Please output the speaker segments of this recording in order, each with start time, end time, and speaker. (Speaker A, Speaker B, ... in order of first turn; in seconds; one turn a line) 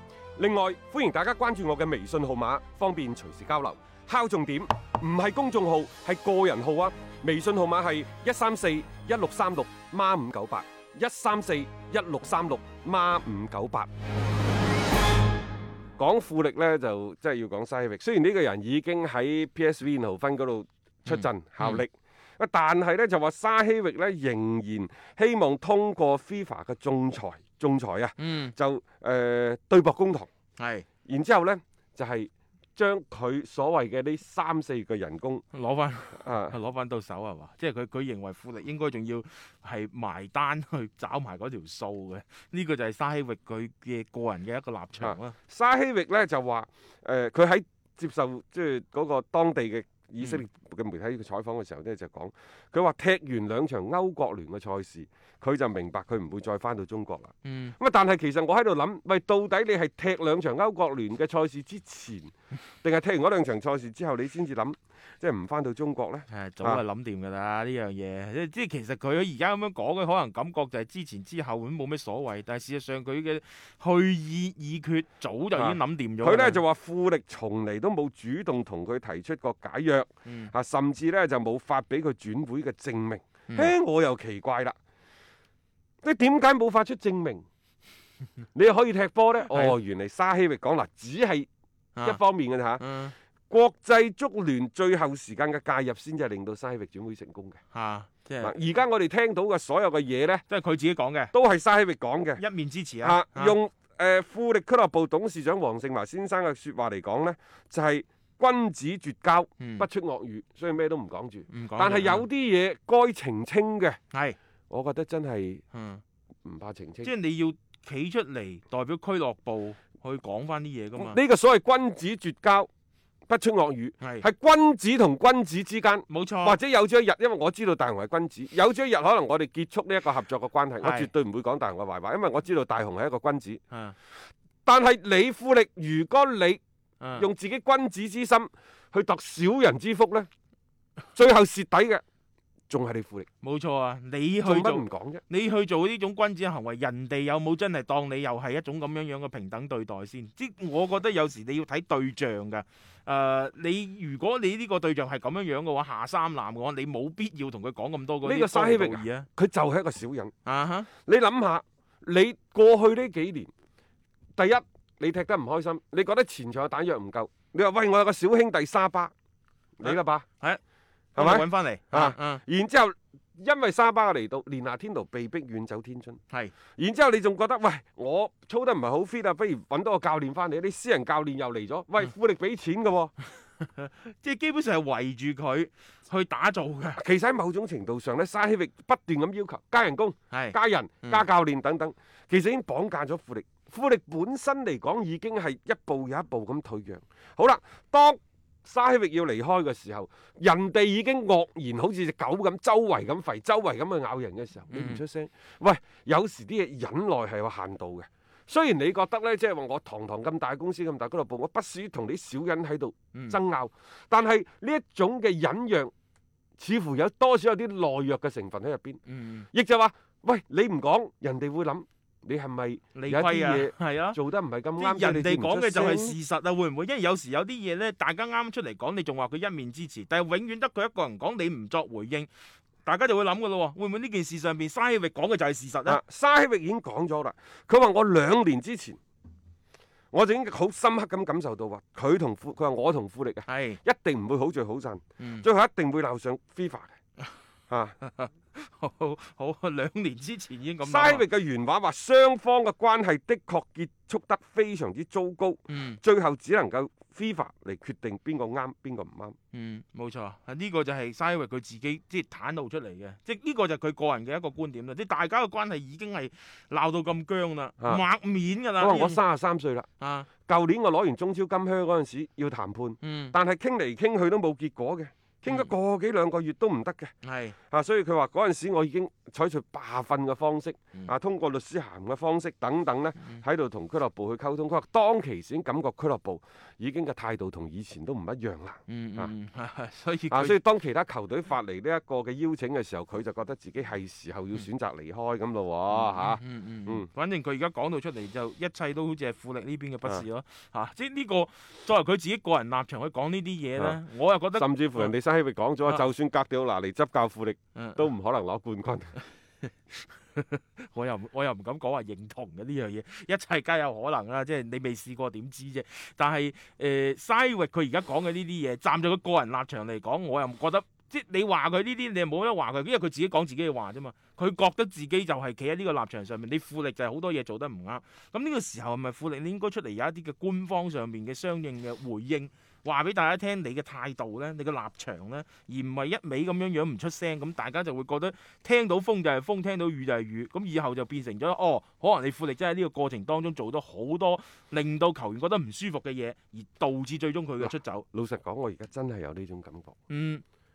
Speaker A: 0.4-13.9
Speaker A: 16.0-30.3
Speaker B: 21.1-21.8
Speaker B: 28.2-28.5
Speaker B: 30.6-30.9
Speaker A: 31.0-35.4
Speaker B: 35.5-45.4
Speaker A: 36.2-36.6
Speaker A: 45.0-66.8
Speaker B: 57.4-57.8
Speaker B: 66.3-76.6
Speaker A: 75.5-84.8
Speaker B: 80.2-80.5
Speaker A: 86.0-87.4
Speaker A: 88.5-91.5
Speaker B: 89.5-89.8
Speaker A: 92.0-92.8
Speaker B: 92.8-93.1
Speaker A: 93.5-97.6
Speaker B: 97.7-98.5
Speaker A: 98.4-100.4
Speaker B: 100.5-101.3
Speaker A: 101.3-102.4
Speaker B: 102.4-103.5
Speaker A: 103.0-114.0
Speaker B: 109.6-109.9
Speaker B: 111.5-112.2
Speaker A: 114.7-115.6
Speaker B: 115.7-116.0
Speaker A: 116.5-117.1
Speaker B: 117.0-121.2
Speaker A: 121.0-122.7
Speaker A: 123.3-133.6
Speaker B: 126.1-126.6
Speaker B: 130.8-131.1
Speaker A: 134.7-136.6
Speaker B: 137.0-137.3
Speaker A: 137.2-140.3
Speaker A: 141.2-142.0
Speaker A: 142.7-143.3
Speaker B: 143.4-159.3
Speaker A: 144.4-145.2
Speaker A: 158.2-160.3
Speaker B: 160.4-160.9
Speaker A: 161.0-163.5
Speaker A: 164.4-169.1
Speaker A: 169.8-170.3
Speaker B: 169.8-170.6
Speaker B: 171.2-172.4
Speaker A: 171.2-176.2
Speaker A: 176.8-183.1
Speaker B: 183.6-187.0
Speaker A: 187.0-215.9
Speaker B: 190.3-191.2
Speaker B: 204.7-205.0
Speaker A: 216.6-219.0
Speaker B: 219.1-219.5
Speaker A: 219.5-226.2
Speaker B: 222.9-224.2
Speaker B: 224.8-232.3
Speaker B: 232.8-236.0
Speaker A: 235.9-239.0
Speaker A: 240.1-246.9
Speaker B: 243.4-243.8
Speaker B: 245.2-245.4
Speaker A: 247.7-247.9
Speaker B: 248.0-251.2
Speaker A: 250.8-259.4
Speaker B: 255.7-256.0
Speaker B: 259.5-269.2
Speaker A: 268.8-269.9
Speaker B: 270.0-270.3
Speaker A: 270.4-277.1
Speaker B: 273.0-273.3
Speaker B: 277.2-277.6
Speaker A: 277.7-289.3
Speaker B: 288.9-290.6
Speaker A: 290.3-297.1
Speaker B: 295.9-305.1
Speaker A: 304.5-309.2
Speaker B: 307.8-308.1
Speaker B: 309.7-348.1
Speaker A: 347.6-349.9
Speaker B: 350.1-350.4